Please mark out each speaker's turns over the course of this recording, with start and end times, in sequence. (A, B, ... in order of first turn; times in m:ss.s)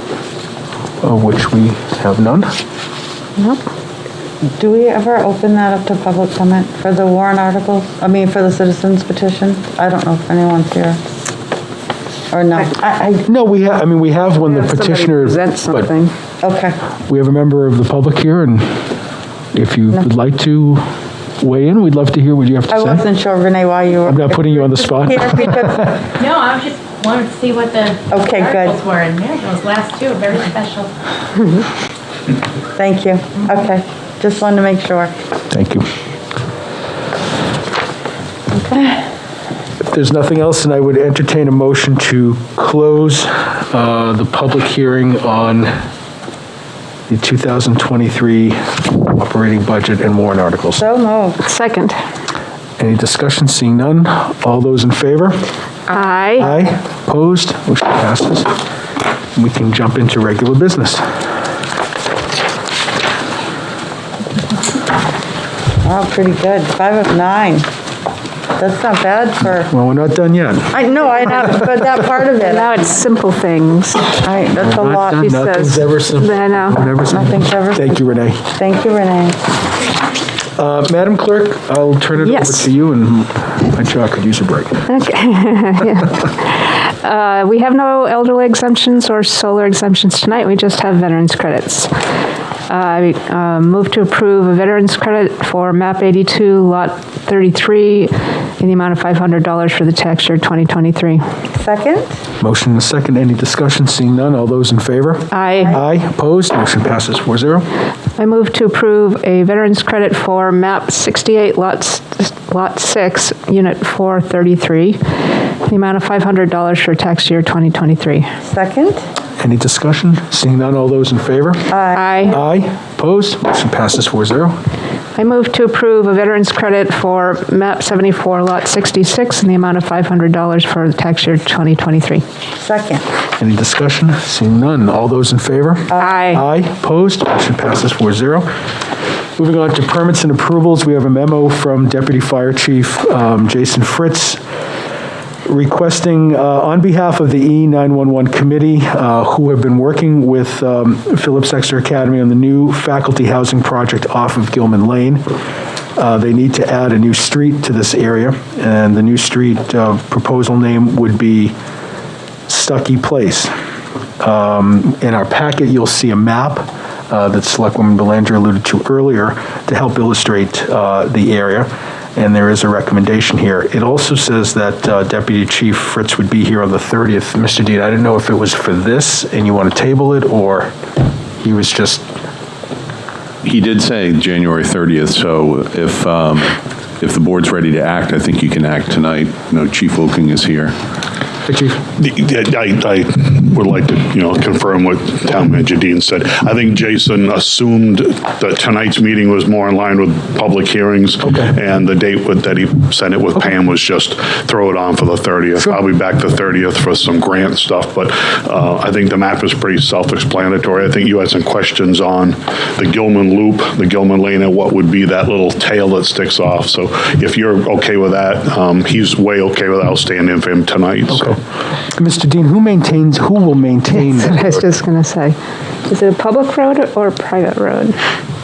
0:01.0-0:02.5 A
0:04.6-0:11.0 B
0:12.3-0:13.2 B
0:13.2-0:15.9 A
0:14.4-0:16.1 C
0:16.4-0:16.8 B
0:17.1-0:18.8 A
0:19.5-0:20.9 A
0:21.4-0:23.0 A
0:22.7-0:25.9 B
0:24.0-0:26.0 A
0:26.2-0:30.9 D
0:28.1-0:28.8 B
0:32.8-0:35.1 B
0:35.5-0:35.9 A
0:38.7-0:39.0 B
0:39.9-0:45.7 A
0:47.1-0:50.8 A
0:50.8-0:51.4 B
0:51.4-0:52.0 C
0:52.8-0:55.4 A
0:55.9-0:56.6 C
0:56.4-0:58.5 A
0:59.4-1:01.0 A
1:05.8-1:07.6 B
1:08.6-1:09.7 B
1:09.7-1:10.8 A
1:10.7-1:12.9 B
1:12.3-1:14.2 C
1:14.1-1:15.8 B
1:14.6-1:18.5 A
1:15.0-1:16.9 C
1:17.1-1:19.4 B
1:20.6-1:24.9 A
1:22.2-1:22.7 C
1:24.9-1:31.9 C
1:32.7-1:41.2 C
1:41.5-1:42.1 B
1:42.4-1:47.6 A
1:45.3-1:45.8 C
1:48.2-1:55.0 C
1:55.6-1:58.3 C
1:58.5-1:59.0 B
1:59.4-2:01.7 A
2:01.7-2:02.2 B
2:01.9-2:02.3 C
2:02.2-2:04.6 A
2:05.2-2:12.2 C
2:12.6-2:13.0 B
2:13.4-2:18.5 A
2:16.0-2:16.4 C
2:19.4-2:24.4 A
2:25.4-2:35.2 A
2:36.0-2:41.5 A
2:42.5-2:43.5 A
2:44.2-3:00.7 A
3:01.4-3:02.0 A
3:03.4-3:10.8 E
3:11.4-3:11.8 A
3:12.0-3:41.3 F
3:21.2-3:21.5 A
3:41.1-3:41.4 A
3:41.9-3:44.6 A
3:43.9-3:48.0 C